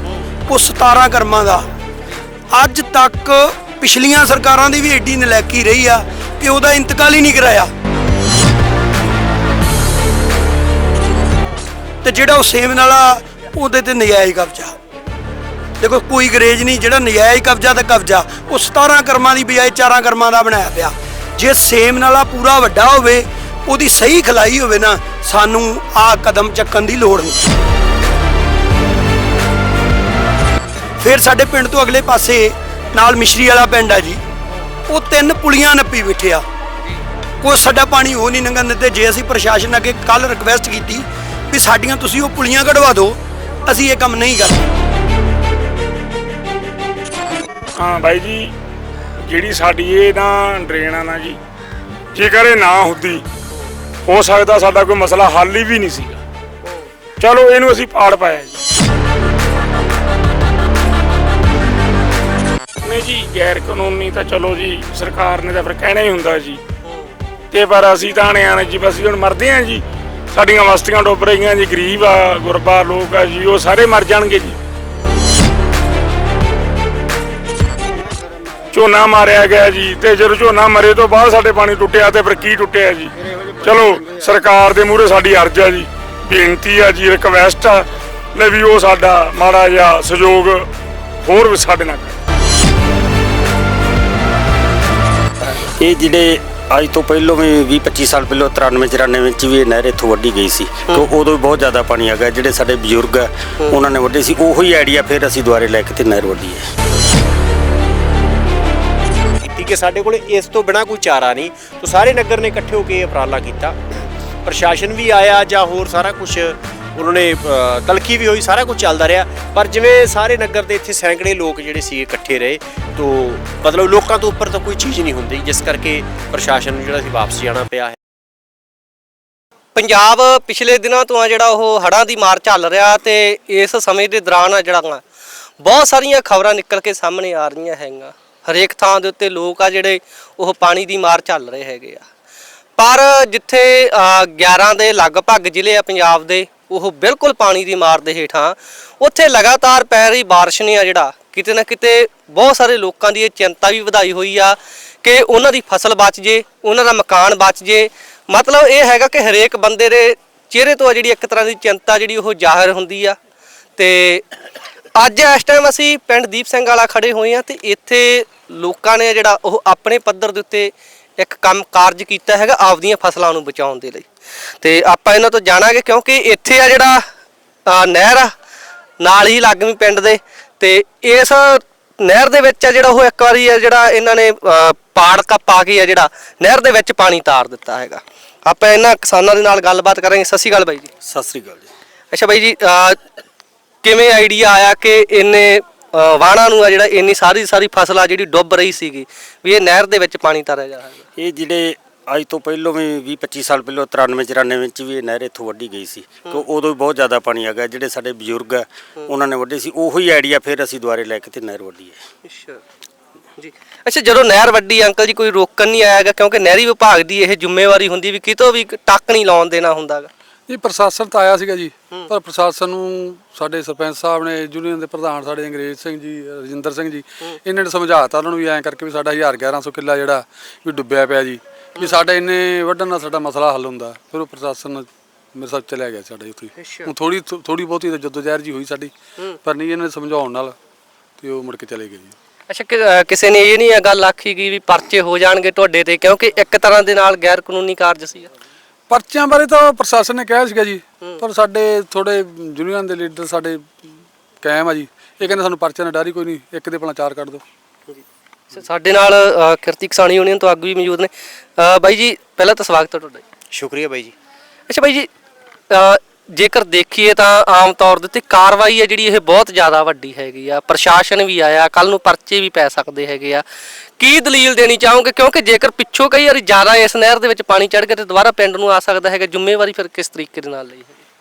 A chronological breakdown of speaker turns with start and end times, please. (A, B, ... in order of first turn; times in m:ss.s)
0:00.5-0:01.7 A
0:02.5-0:07.7 A
0:12.0-0:14.8 A
0:15.8-0:27.4 A
0:31.0-0:34.2 A
0:34.9-0:36.4 A
0:37.4-0:44.7 A
0:47.8-0:48.5 B
0:49.2-0:51.4 B
0:52.1-0:53.2 B
0:54.1-0:56.2 B
0:57.2-0:58.6 B
1:02.8-1:06.6 B
1:06.8-1:07.1 C
1:07.5-1:14.6 B
1:18.7-1:23.1 B
1:23.6-1:30.7 B
1:31.2-1:32.2 B
1:35.8-1:46.6 D
1:49.4-2:08.0 E
2:09.8-2:15.0 C
2:15.6-2:22.1 C
2:22.8-2:43.2 C
2:43.8-2:44.3 C
2:45.0-2:54.1 C
2:54.6-2:57.0 C
2:57.7-2:58.3 C
2:59.0-3:10.9 C
3:11.1-3:11.7 D
3:12.1-3:13.0 C
3:13.8-3:21.0 C
3:21.2-3:32.0 D
3:32.3-3:32.6 C
3:33.4-3:40.1 C
3:40.5-3:58.9 F
3:51.8-3:52.0 C
3:56.6-3:56.9 C
3:59.4-4:00.6 F
4:01.2-4:02.2 F
4:02.5-4:08.3 C
4:08.9-4:17.4 F
4:18.5-4:23.2 C
4:23.5-4:24.1 E
4:24.7-4:25.1 C
4:25.7-4:33.4 C
4:34.0-4:41.0 C